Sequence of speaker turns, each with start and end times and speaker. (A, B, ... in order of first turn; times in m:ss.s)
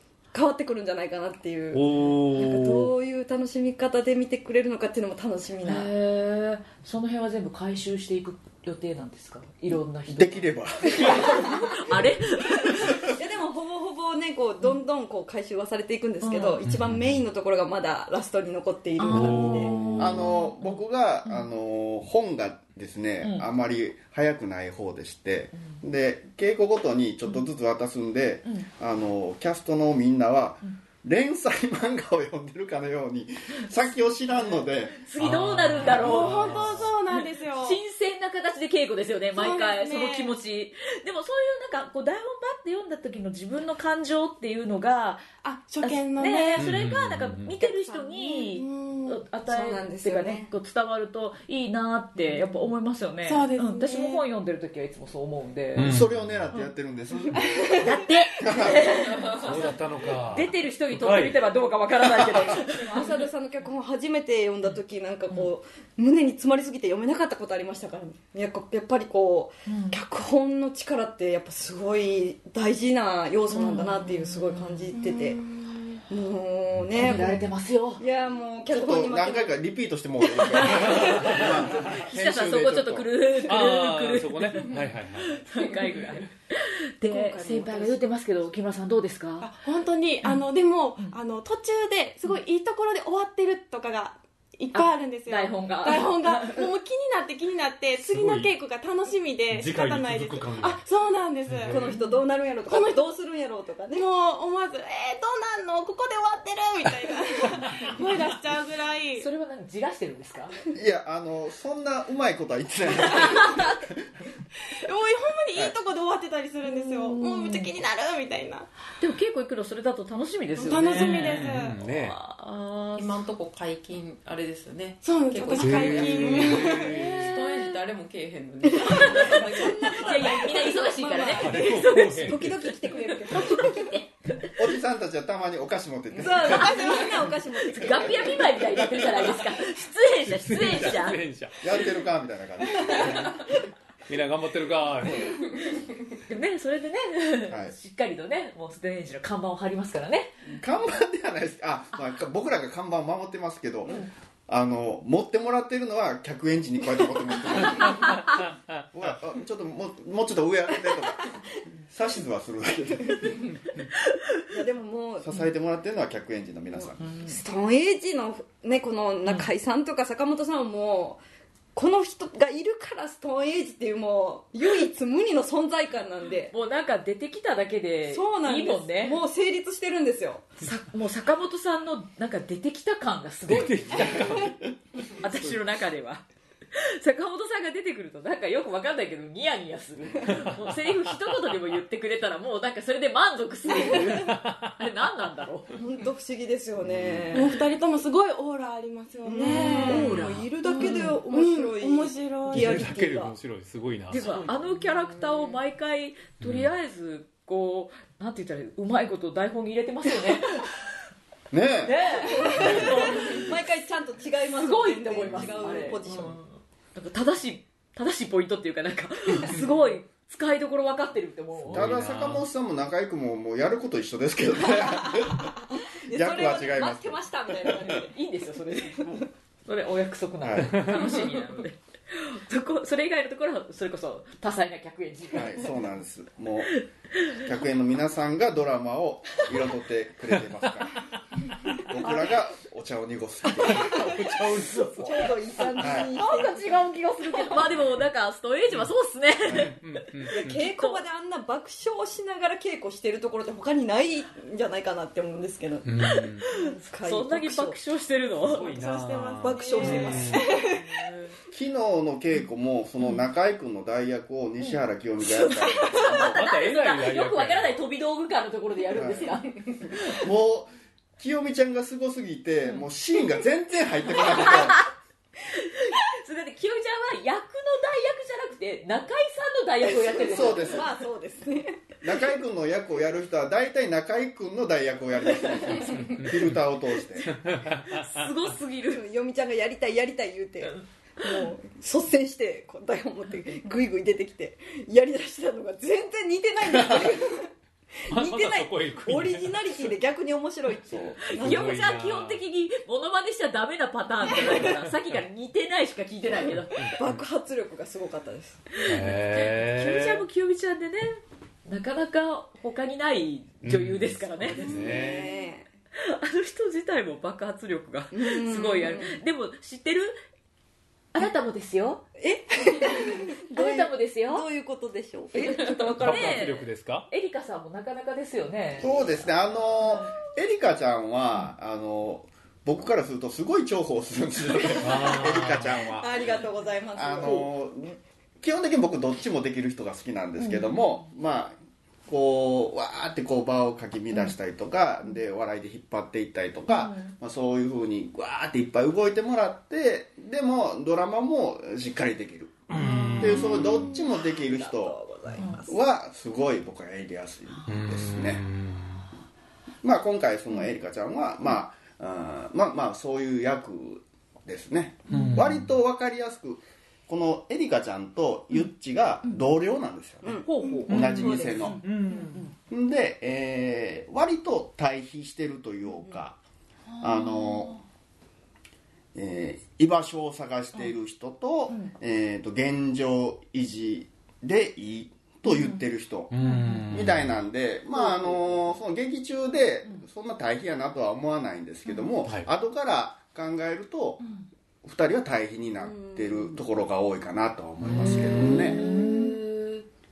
0:00.3-0:05.9 A
0:01.7-0:02.9 B
0:05.6-0:13.0 C
0:10.1-0:11.6 D
0:13.1-0:19.8 A
0:16.2-0:16.6 C
0:16.6-0:17.1 B
0:19.0-0:20.7 C
0:19.1-0:20.4 B
0:20.0-0:35.0 D
0:34.3-0:45.2 C
0:35.2-0:36.9 B
0:35.8-0:37.8 E
0:39.3-0:40.4 E
0:45.4-0:46.7 E
0:45.8-0:56.7 C
0:46.6-0:47.5 B
0:47.8-0:48.6 E
0:48.6-0:50.5 A
0:53.2-0:54.2 E
0:55.7-0:56.4 B
0:55.8-0:57.8 D
0:57.4-0:57.8 E
0:57.8-0:59.7 C
0:58.4-0:58.9 D
0:59.3-1:01.4 B
1:00.3-1:03.1 C
1:02.6-1:15.5 A
1:09.7-1:10.0 C
1:13.5-1:15.3 C
1:16.1-1:17.5 A
1:17.0-1:18.0 C
1:18.0-1:19.6 A
1:18.7-1:23.1 D
1:20.4-1:21.5 A
1:20.7-1:21.4 C
1:21.9-1:29.5 C
1:23.4-1:25.4 B
1:27.1-1:28.0 A
1:29.4-1:42.0 E
1:34.7-1:36.7 C
1:38.0-1:38.5 B
1:39.5-1:40.8 B
1:41.5-1:41.9 B
1:41.7-1:44.0 A
1:41.9-1:42.2 C
1:42.6-1:43.1 E
1:43.9-1:49.3 E
1:49.2-1:50.6 C
1:50.7-1:53.8 D
1:54.8-1:58.7 E
1:56.6-1:57.7 C
1:59.0-2:03.1 C
2:00.6-2:01.8 E
2:00.9-2:02.2 B
2:02.4-2:10.4 F
2:05.0-2:07.2 E
2:05.5-2:07.3 B
2:07.0-2:07.4 C
2:08.8-2:09.4 C
2:08.8-2:14.0 A
2:09.9-2:14.5 C
2:11.4-2:12.6 B
2:14.6-2:16.9 D
2:16.2-2:18.6 A
2:16.5-2:21.2 C
2:20.3-2:21.8 B
2:21.6-2:23.3 D
2:24.1-2:25.4 B
2:26.3-2:30.5 C
2:27.5-2:27.7 D
2:30.5-2:43.5 D
2:44.5-2:45.3 A
2:45.2-2:47.0 D
2:47.0-2:47.3 C
2:47.2-2:51.2 A
2:51.7-2:56.5 A
2:56.5-2:59.2 C
2:58.1-3:00.5 A
3:00.6-3:04.5 C
3:03.5-3:04.6 B
3:05.2-3:15.7 C
3:14.2-3:14.6 B
3:15.8-3:17.6 A
3:16.8-3:17.3 D
3:17.3-3:22.9 E
3:19.2-3:23.3 A
3:19.4-3:21.2 C
3:22.5-3:24.5 B
3:24.1-3:30.8 C
3:26.4-3:26.7 B
3:31.5-3:32.8 D
3:31.8-3:33.6 C
3:32.2-3:36.4 A
3:34.5-3:41.9 C
3:41.6-3:42.4 B
3:41.7-3:45.6 D
3:44.7-3:48.1 A
3:46.1-3:47.8 D
3:47.8-3:55.8 C
3:50.4-3:51.0 D
3:55.3-3:56.8 D
3:57.3-4:01.1 D
4:01.7-4:04.1 D
4:03.6-4:05.3 B
4:04.1-4:04.4 A
4:05.0-4:07.8 A
4:05.8-4:06.1 D
4:06.1-4:11.0 C
4:09.5-4:10.6 B
4:10.3-4:15.9 A
4:15.8-4:16.4 B
4:16.0-4:18.7 C
4:16.5-4:17.8 A
4:18.4-4:20.8 E
4:18.4-4:20.4 B
4:19.4-4:20.6 A
4:20.7-4:21.3 C
4:21.5-4:26.4 D
4:24.6-4:30.2 C
4:26.0-4:27.8 B
4:28.9-4:29.4 D
4:30.1-4:34.8 D
4:34.1-4:34.9 C
4:35.5-4:40.8 C
4:39.8-4:42.0 A
4:40.2-4:40.9 D
4:42.0-4:47.4 D
4:46.2-4:46.4 B
4:47.3-4:48.3 B
4:47.8-4:49.0 C
4:48.9-4:57.5 A
4:58.1-5:01.9 A
4:58.1-4:59.8 B
5:01.3-5:06.9 C
5:01.3-5:02.4 B
5:06.8-5:07.2 B
5:07.0-5:08.7 A
5:08.7-5:14.9 C
5:08.8-5:10.2 B
5:13.6-5:15.3 B
5:14.5-5:15.7 A
5:16.0-5:20.1 C
5:18.1-5:19.2 A
5:21.1-5:22.0 C
5:22.2-5:26.5 A
5:23.5-5:24.4 C
5:25.4-5:28.9 C
5:26.0-5:27.1 B
5:28.8-5:36.4 D
5:34.8-5:35.8 B
5:35.9-5:37.5 A
5:36.9-5:41.6 D
5:40.4-5:40.8 C
5:42.1-5:52.7 D
5:46.7-5:47.1 C
5:52.7-5:53.9 B
5:52.8-5:55.8 A
5:53.2-5:55.0 D
5:55.6-5:58.4 D
5:57.6-5:59.0 B
5:59.8-6:11.8 D
6:05.1-6:05.4 C
6:05.1-6:05.7 B
6:10.2-6:10.8 A
6:10.4-6:12.5 C
6:10.9-6:12.4 B
6:12.7-6:16.4 D
6:16.9-6:17.8 C
6:17.0-6:17.7 D
6:19.1-6:26.3 D
6:25.4-6:25.8 C
6:26.3-6:27.3 B
6:26.4-6:26.9 C
6:26.9-6:34.2 D
6:27.9-6:28.4 A
6:34.8-6:38.8 D
6:35.8-6:36.6 A
6:37.8-6:38.7 B
6:37.9-6:39.8 C